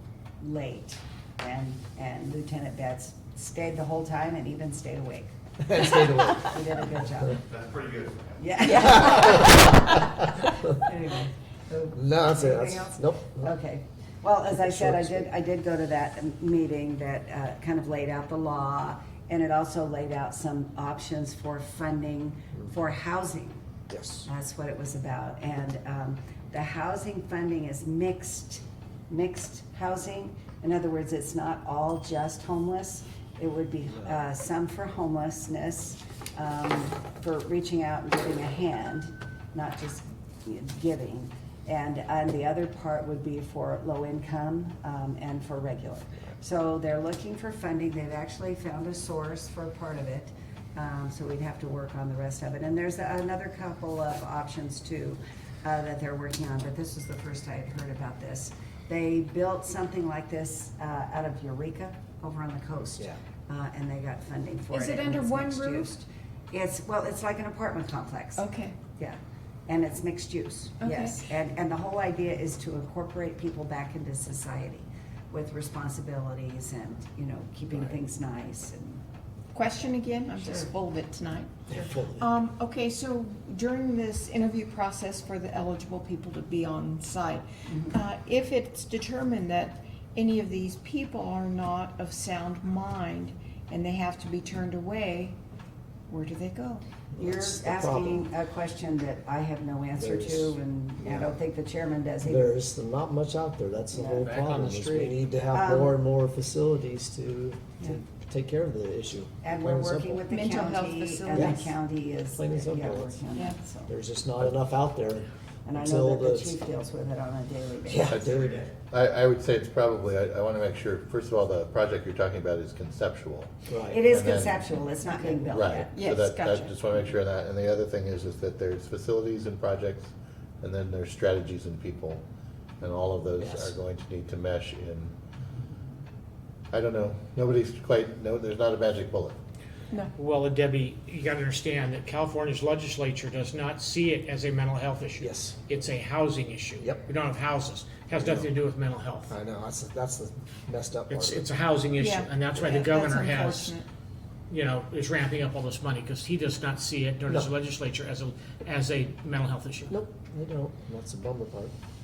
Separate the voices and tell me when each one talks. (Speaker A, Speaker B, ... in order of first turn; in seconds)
Speaker A: 0.4-7.5, 8.4-23.6, 24.2-79.0, 80.4-80.7, 87.7-88.0, 97.2-102.5, 103.9-104.3, 105.5-106.0, 109.4-113.9, 115.7-118.2, 123.8-126.0
Speaker B: 5.6-6.6, 8.9-10.0, 11.9-13.5, 14.5-15.3, 23.9-24.3, 81.7-82.3, 97.1-98.3, 100.0-101.4, 102.2-110.2, 111.3-111.7, 112.3-113.2, 113.9-116.6, 117.9-118.7, 123.7-124.0, 133.4-133.7, 145.2-145.7, 146.8-147.1, 148.1-148.5, 149.3-151.5, 159.9-161.7
Speaker C: 64.7-65.9, 68.4-68.8, 70.8-71.2, 79.5-81.5, 82.1-95.4, 96.1-96.8, 110.3-111.7, 113.3-113.6, 125.0-127.1, 152.0-153.9
Speaker D: 104.3-105.2, 140.2-149.3, 151.1-153.8, 154.5-159.9
Speaker E: 118.7-123.5, 124.1-124.7, 125.5-132.2, 132.8-135.1, 136.7-139.3